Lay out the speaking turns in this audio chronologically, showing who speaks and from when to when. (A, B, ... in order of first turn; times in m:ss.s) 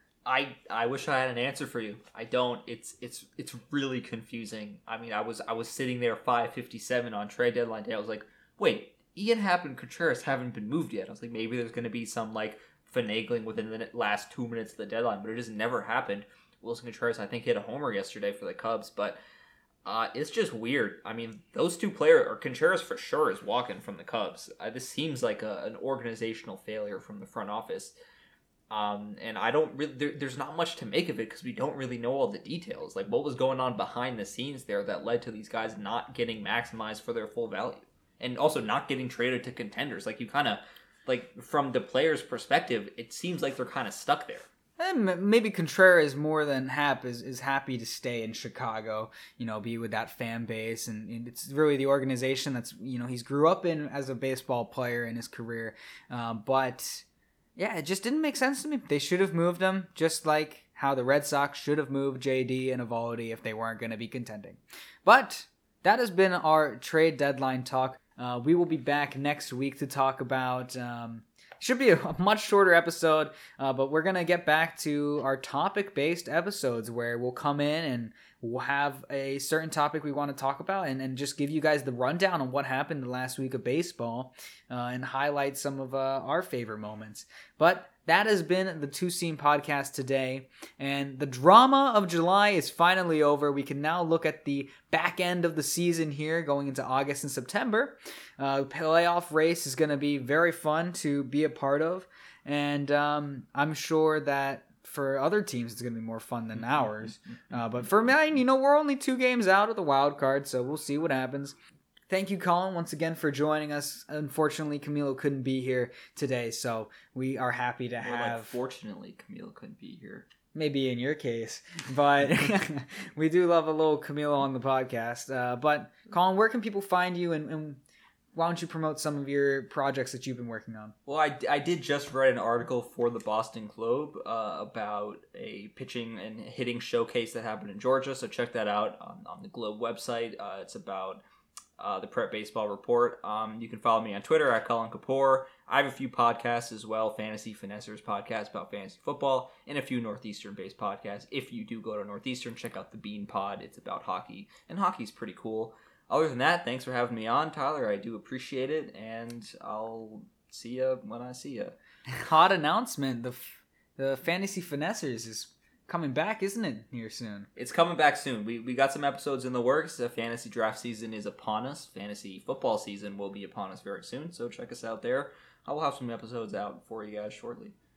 0:00.2-0:19.2 A
0:19.8-0:28.0 A
0:28.7-0:44.5 A
0:44.8-0:57.0 B
0:57.6-1:51.5 B
1:52.1-1:58.6 B
1:58.0-2:00.3 A
2:00.5-2:07.8 B
2:08.3-2:10.9 B
2:11.0-2:21.2 A
2:21.8-2:41.8 A
2:42.2-2:47.5 B
2:47.6-2:57.7 A